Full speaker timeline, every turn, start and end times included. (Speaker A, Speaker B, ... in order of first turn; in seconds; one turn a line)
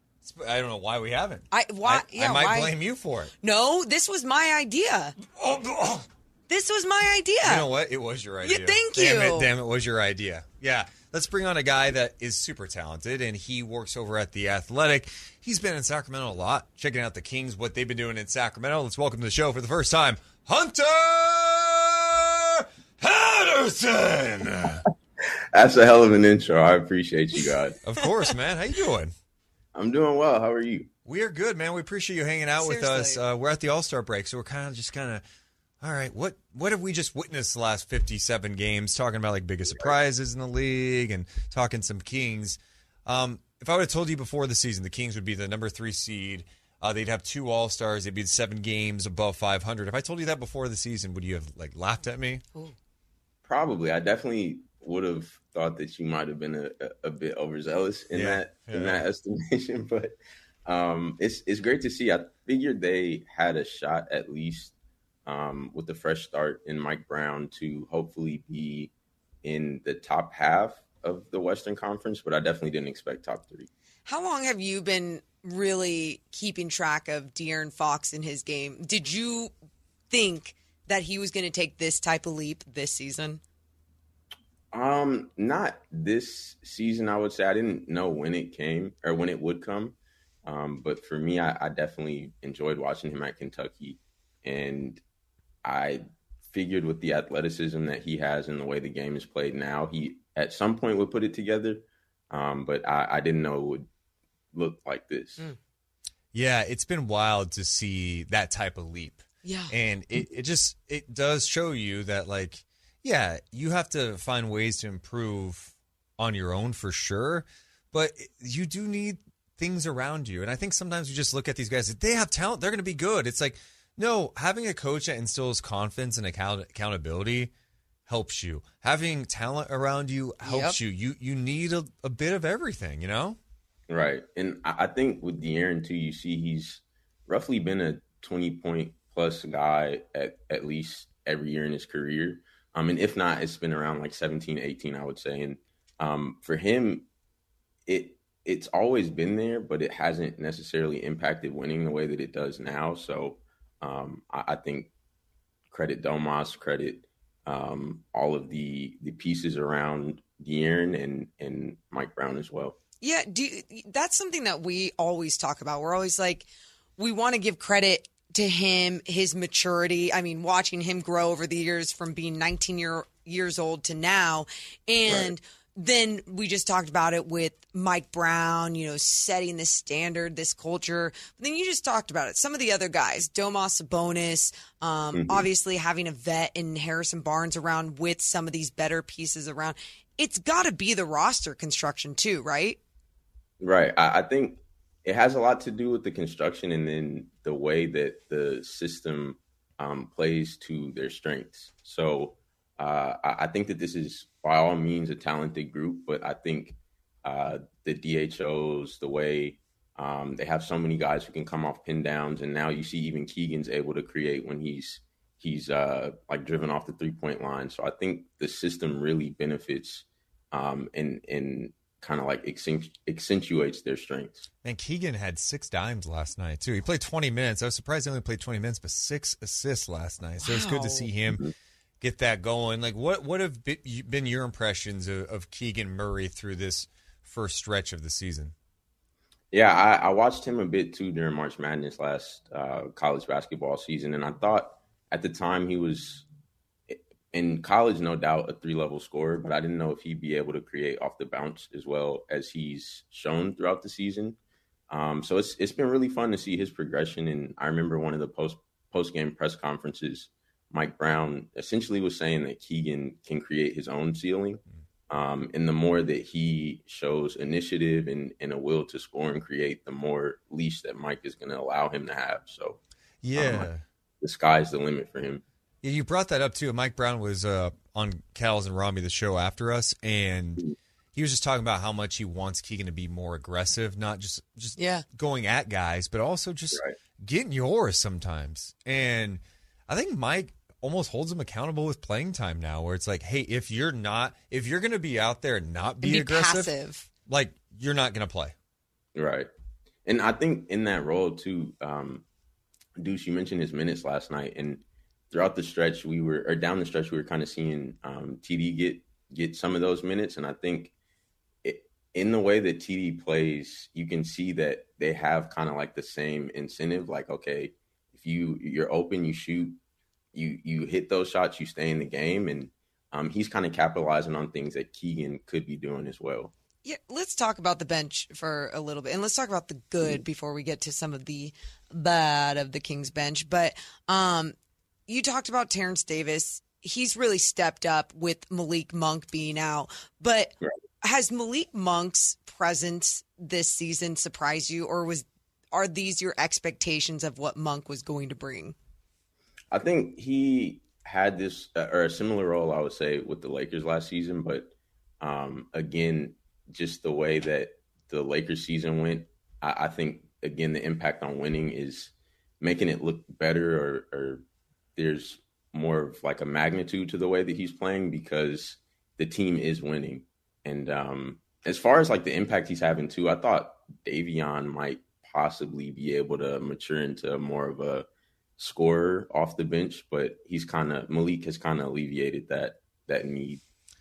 Speaker A: 0.2-3.3
Speaker B: 1.5-2.7
Speaker B: 3.4-5.2
Speaker A: 5.3-6.1
Speaker B: 6.5-7.7
Speaker A: 7.4-24.8
Speaker B: 8.4-9.5
Speaker C: 25.5-27.8
Speaker A: 27.9-29.1
Speaker C: 29.7-30.9
Speaker A: 31.1-35.2
Speaker B: 32.6-33.2
Speaker A: 35.8-52.4
Speaker C: 39.7-40.0
Speaker C: 53.5-64.7
Speaker A: 58.1-59.0
Speaker C: 65.3-68.9
Speaker C: 69.4-73.7
Speaker B: 74.1-79.5
Speaker B: 80.1-83.4
Speaker C: 84.7-95.0
Speaker C: 95.7-103.9
Speaker C: 104.5-105.4
Speaker A: 106.3-127.5
Speaker B: 109.4-109.7
Speaker A: 128.1-133.4
Speaker B: 130.4-130.8
Speaker C: 133.9-147.1
Speaker C: 147.9-154.9
Speaker C: 155.7-162.8
Speaker B: 163.0-192.8
Speaker C: 175.1-175.3
Speaker C: 185.1-185.5
Speaker C: 193.6-224.5
Speaker A: 224.6-231.5
Speaker B: 230.4-231.1
Speaker A: 232.0-238.5
Speaker C: 239.5-246.3
Speaker C: 246.9-254.4
Speaker C: 254.9-272.8
Speaker A: 273.2-273.8
Speaker C: 273.4-273.7
Speaker C: 274.2-275.4
Speaker A: 275.8-296.7
Speaker B: 284.8-285.1
Speaker B: 296.0-297.1
Speaker A: 297.3-298.5
Speaker C: 299.1-299.5
Speaker C: 300.1-302.3
Speaker C: 303.0-310.9
Speaker C: 311.6-319.8
Speaker C: 320.3-326.5
Speaker B: 326.9-334.6
Speaker B: 335.1-348.8
Speaker C: 349.7-364.4
Speaker C: 365.0-378.1
Speaker C: 378.6-383.6